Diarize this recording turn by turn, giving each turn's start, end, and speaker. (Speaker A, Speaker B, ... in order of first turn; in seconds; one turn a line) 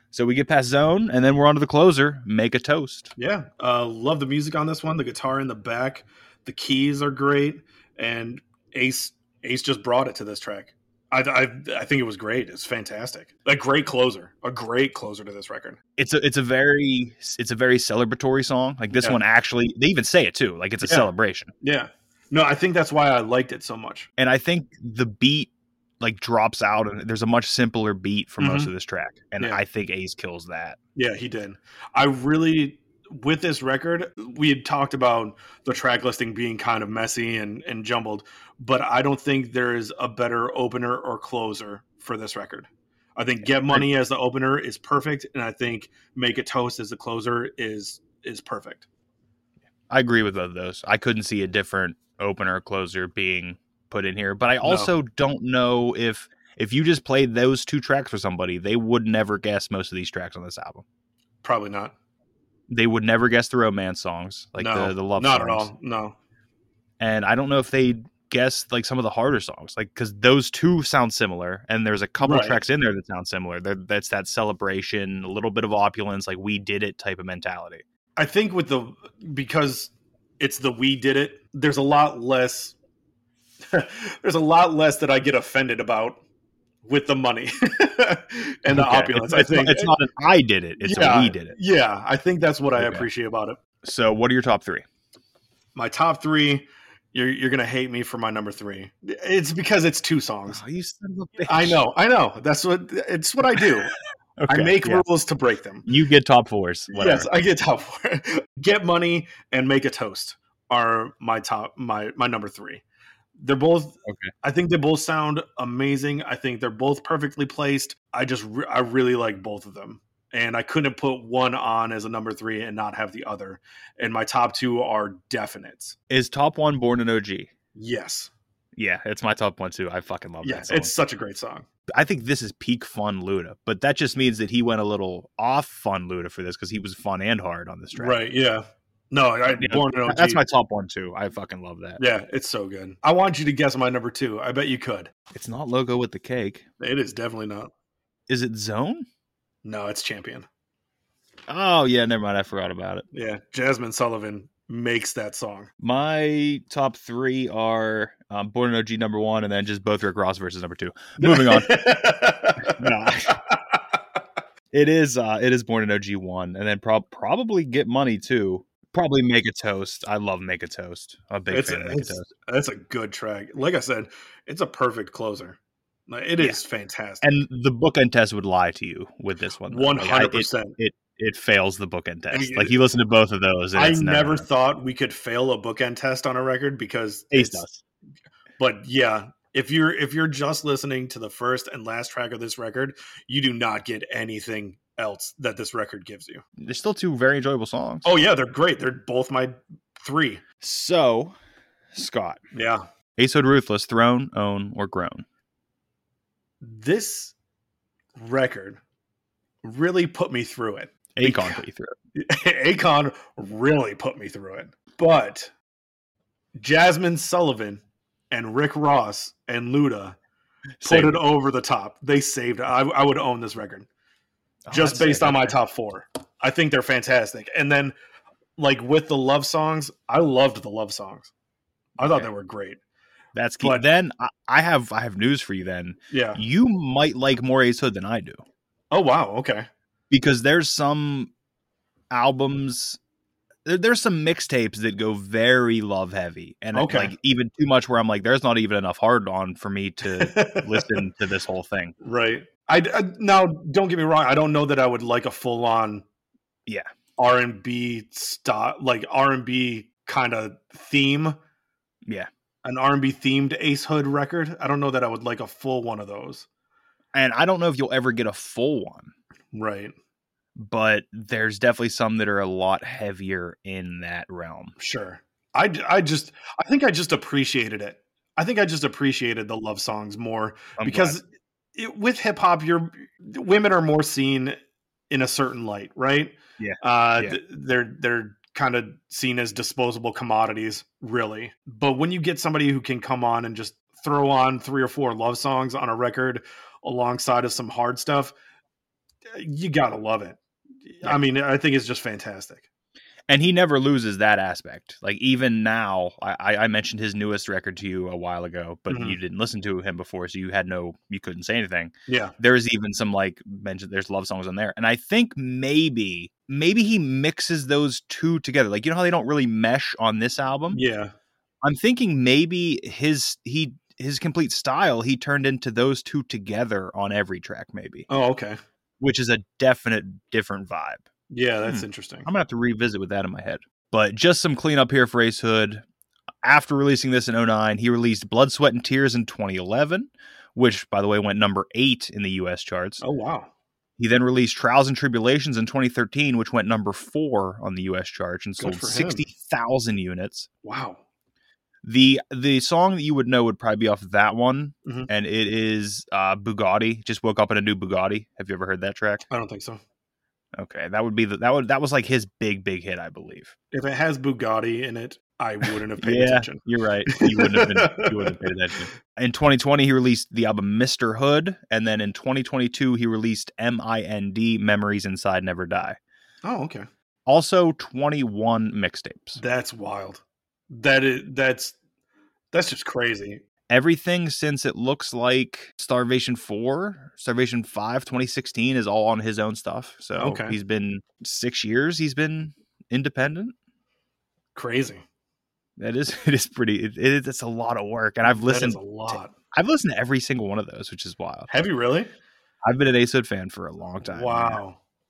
Speaker A: 0.1-3.1
Speaker B: 3.2-15.8
Speaker A: 16.0-21.5
Speaker B: 20.8-21.1
Speaker B: 21.6-24.1
Speaker A: 24.2-30.8
Speaker B: 28.4-28.7
Speaker B: 30.9-48.9
Speaker A: 43.5-43.9
Speaker A: 49.9-60.8
Speaker B: 54.6-54.9
Speaker B: 61.4-61.9
Speaker A: 62.7-65.7
Speaker B: 64.6-66.2
Speaker A: 67.0-77.8
Speaker B: 72.2-72.6
Speaker B: 78.2-82.7
Speaker B: 83.6-86.2
Speaker B: 86.8-89.9
Speaker A: 88.7-91.5
Speaker B: 90.8-93.6
Speaker A: 92.8-93.1
Speaker A: 93.8-94.8
Speaker B: 95.7-100.6
Speaker A: 100.5-101.8
Speaker B: 101.5-103.9
Speaker A: 104.4-105.0
Speaker B: 104.5-105.9
Speaker A: 105.9-107.3
Speaker B: 106.9-112.8
Speaker B: 113.4-126.0
Speaker A: 126.1-127.5
Speaker B: 127.7-128.3
Speaker A: 128.8-130.9
Speaker B: 130.4-131.7
Speaker A: 131.9-138.2
Speaker B: 137.9-140.4
Speaker A: 139.6-142.0
Speaker B: 142.0-145.1
Speaker A: 145.3-146.7
Speaker B: 146.8-147.7
Speaker A: 148.3-149.1
Speaker B: 149.6-150.4
Speaker A: 151.5-153.1
Speaker B: 153.1-155.7
Speaker A: 155.8-161.8
Speaker B: 161.2-163.6
Speaker A: 162.6-163.4
Speaker A: 164.7-172.3
Speaker B: 171.5-177.3
Speaker A: 177.2-184.4
Speaker B: 179.7-180.8
Speaker B: 182.3-182.7
Speaker B: 183.7-187.6
Speaker A: 187.3-187.8
Speaker B: 188.6-196.4
Speaker A: 196.6-198.1
Speaker B: 198.0-200.4
Speaker A: 200.6-201.3
Speaker A: 201.9-202.4
Speaker B: 202.5-202.8
Speaker A: 203.2-205.2
Speaker B: 206.6-207.3
Speaker B: 208.2-208.8
Speaker B: 209.6-211.6
Speaker A: 211.2-211.9
Speaker B: 212.1-215.5
Speaker B: 216.6-220.2
Speaker A: 220.8-221.2
Speaker B: 220.8-223.9
Speaker A: 224.7-225.6
Speaker B: 224.7-227.9
Speaker B: 228.6-231.3
Speaker B: 232.0-232.8
Speaker A: 232.0-232.3
Speaker A: 233.3-238.4
Speaker B: 236.1-236.4
Speaker B: 238.9-239.7
Speaker A: 240.1-241.3
Speaker A: 242.1-243.0
Speaker A: 243.7-251.9
Speaker B: 246.7-247.1
Speaker B: 250.1-251.0
Speaker B: 252.0-256.0
Speaker B: 257.2-261.4
Speaker B: 262.6-266.4
Speaker A: 267.1-269.1
Speaker B: 269.5-269.9
Speaker A: 270.6-274.7
Speaker B: 274.8-281.2
Speaker A: 280.8-281.2
Speaker B: 281.8-284.6
Speaker B: 285.1-298.3
Speaker A: 286.6-287.4
Speaker B: 299.3-302.6
Speaker A: 303.3-320.8
Speaker B: 308.9-309.2
Speaker B: 312.1-312.4
Speaker B: 320.7-321.1
Speaker A: 321.6-328.1
Speaker B: 328.1-328.6
Speaker A: 329.0-331.0
Speaker B: 331.3-332.3
Speaker A: 331.6-335.8
Speaker A: 336.4-343.0
Speaker B: 343.0-343.5
Speaker A: 344.0-350.5
Speaker B: 348.6-349.2
Speaker B: 350.6-351.0
Speaker A: 351.8-359.2
Speaker B: 359.3-359.8
Speaker A: 360.6-363.5
Speaker B: 363.7-368.4
Speaker A: 366.0-376.0
Speaker B: 376.4-376.9
Speaker A: 377.3-379.4
Speaker B: 379.4-381.8
Speaker B: 382.5-383.4
Speaker A: 383.7-393.6
Speaker B: 390.2-390.6
Speaker B: 394.6-395.0
Speaker A: 395.8-401.5
Speaker B: 398.4-399.3
Speaker B: 401.5-402.1
Speaker A: 402.6-404.6
Speaker B: 404.1-404.8